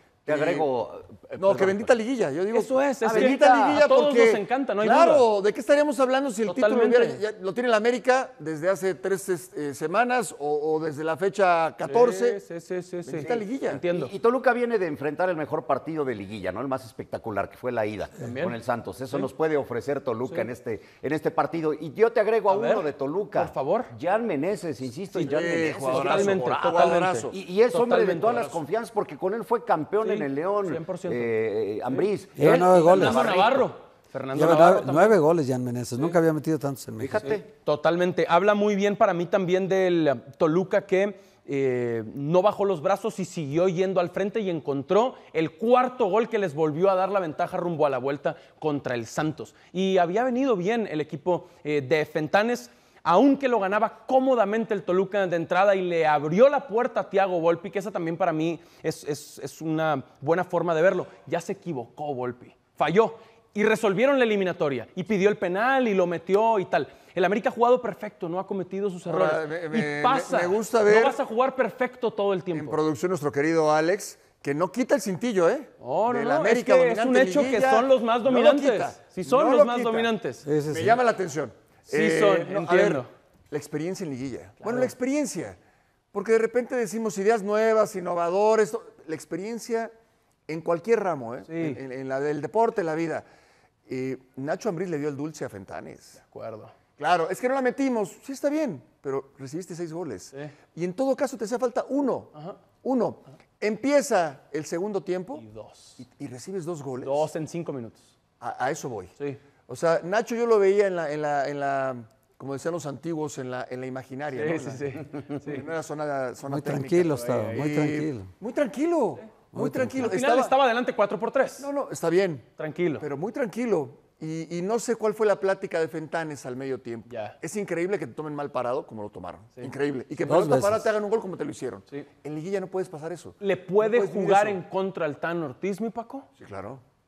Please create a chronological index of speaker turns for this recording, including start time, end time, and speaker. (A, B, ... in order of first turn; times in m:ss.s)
0:00.2-0:00.7 A
0:00.3-0:01.9 B
0:01.4-0:12.4 A
0:02.5-0:05.2 C
0:03.0-0:03.8 B
0:06.5-0:07.2 C
0:11.8-0:14.1 C
0:13.0-0:13.8 A
0:13.2-0:33.6 B
0:18.2-0:18.6 C
0:22.5-0:23.9 C
0:25.1-0:28.6 C
0:25.2-0:27.3 A
0:30.0-0:31.3 C
0:31.8-0:35.2 C
0:32.4-0:33.3 D
0:34.3-0:37.4 D
0:37.0-0:37.4 B
0:37.2-1:12.8 C
1:09.0-1:11.2 A
1:12.5-1:20.1 A
1:15.8-1:20.4 C
1:20.4-1:21.0 D
1:20.7-1:25.6 A
1:21.9-1:23.1 C
1:24.6-1:24.9 C
1:26.1-1:29.9 A
1:30.5-1:33.2 A
1:31.5-1:31.8 C
1:33.9-1:36.2 A
1:36.2-1:36.7 C
1:37.0-1:45.4 A
1:45.4-1:46.0 C
1:46.0-1:47.3 A
1:47.0-1:48.1 C
1:48.4-1:49.1 A
1:49.7-2:00.5 A
1:54.3-1:55.6 C
1:56.5-1:58.3 D
1:57.1-1:57.6 C
1:59.5-2:00.1 D
2:00.0-2:01.7 C
2:01.6-2:02.5 A
2:02.6-2:03.0 C
2:03.0-2:14.6 A
2:07.1-2:07.4 C
2:10.2-2:10.9 D
2:13.4-2:16.2 C
2:16.4-2:16.8 A